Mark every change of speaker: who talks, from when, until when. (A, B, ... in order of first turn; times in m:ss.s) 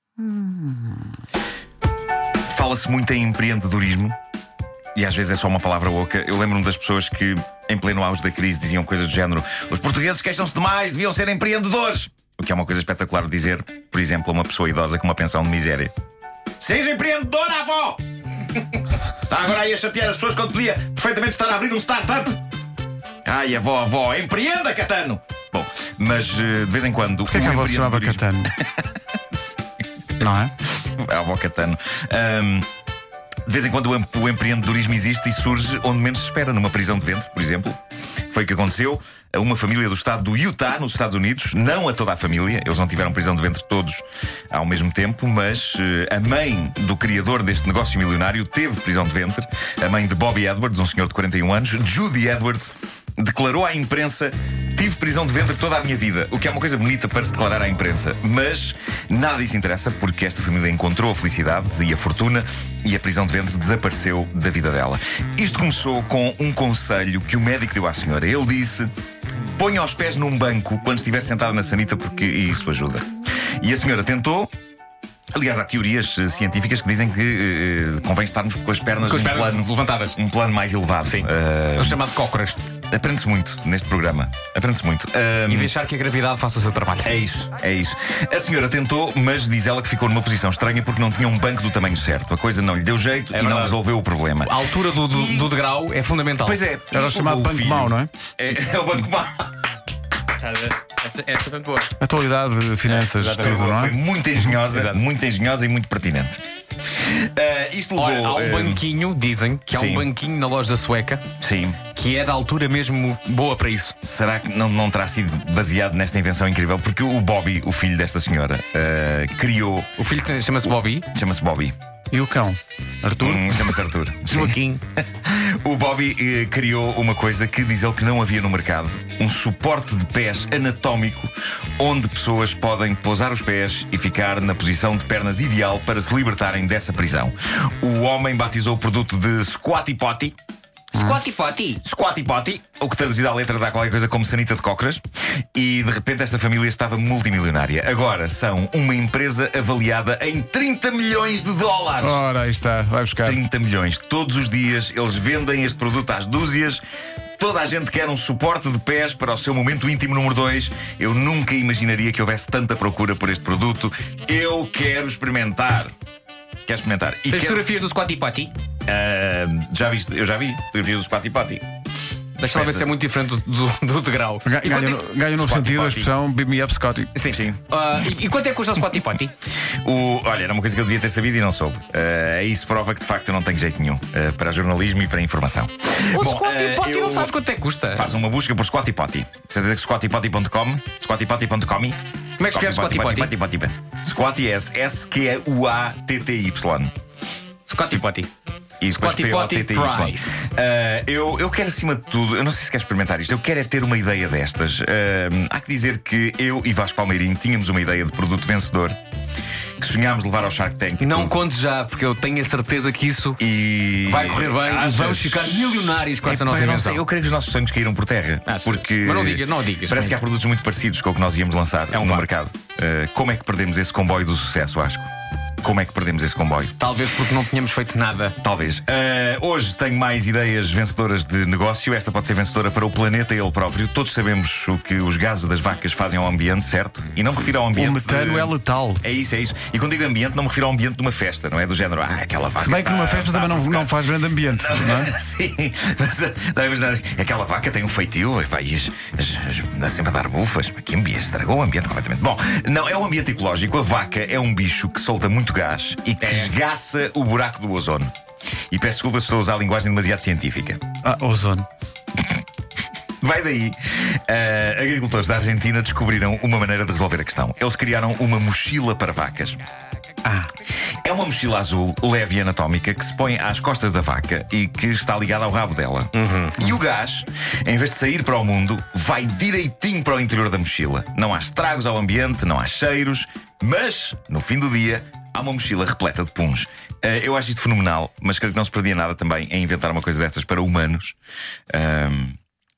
0:02.5-0:04.2 A
0:05.0-0:15.9 A
0:16.6-0:18.0 A
0:18.6-0:22.4 A
0:23.2-0:28.7 A
0:27.2-0:28.5 B
0:30.2-0:30.5 B
0:30.9-0:32.7 A
0:33.5-0:37.8 A
0:38.3-1:08.9 A
1:09.6-1:13.1 A
1:13.6-1:14.5 A
1:15.3-1:22.0 A
1:19.0-1:20.2 C
1:21.0-1:22.6 C
1:22.9-1:25.7 A
1:25.5-1:27.1 C
1:27.0-1:35.6 A
1:33.3-1:33.8 C
1:34.4-1:36.6 C
1:36.4-1:39.5 A
1:36.9-1:38.1 B
1:40.4-1:41.9 C
1:42.0-1:43.9 B
1:42.8-1:43.7 C
1:43.3-1:46.4 A
1:44.7-1:45.0 C
1:47.0-1:48.8 A
1:48.0-1:51.2 C
1:49.7-1:50.1 A
1:51.4-1:51.8 A
1:51.9-1:53.9 C
1:54.0-1:59.9 A
2:00.0-2:01.1 C
2:01.1-2:01.8 A
2:02.1-2:03.8 B
2:03.2-2:04.6 A
2:04.3-2:04.8 C
2:05.2-2:20.3 A
2:20.9-2:21.8 C
2:21.8-2:25.0 A
2:25.5-2:32.2 A
2:32.0-2:33.4 B
2:33.2-2:36.8 A
2:37.4-2:45.9 A
2:46.7-2:47.7 A
2:47.3-2:48.5 C
2:48.9-2:51.6 A
2:52.4-2:55.0 C
2:52.5-2:52.8 A
2:54.4-2:57.1 B
2:55.4-2:56.1 A
2:57.1-2:59.3 C
2:57.2-2:57.6 A
2:59.8-3:07.4 A
3:06.1-3:08.1 C
3:07.9-3:12.0 A
3:12.4-3:13.3 C
3:12.5-3:16.9 A
3:17.7-3:18.3 C
3:18.8-3:29.0 A
3:18.9-3:20.5 C
3:29.8-3:31.4 A
3:31.0-3:33.4 C
3:33.4-3:35.6 A
3:34.0-3:37.0 C
3:36.2-3:45.1 A
3:38.4-3:40.2 C
3:41.9-3:42.3 C
3:45.6-3:46.8 A
3:46.8-3:48.3 C
3:48.4-4:18.1 A
3:57.7-3:59.0 B
4:02.6-4:05.1 B
4:16.2-4:16.5 C
4:18.7-4:20.8 A
4:21.0-4:21.7 B
4:23.2-4:29.6 A
4:30.2-4:30.5 B
4:31.0-4:51.1 A
4:36.1-4:36.6 C
4:51.7-4:52.4 A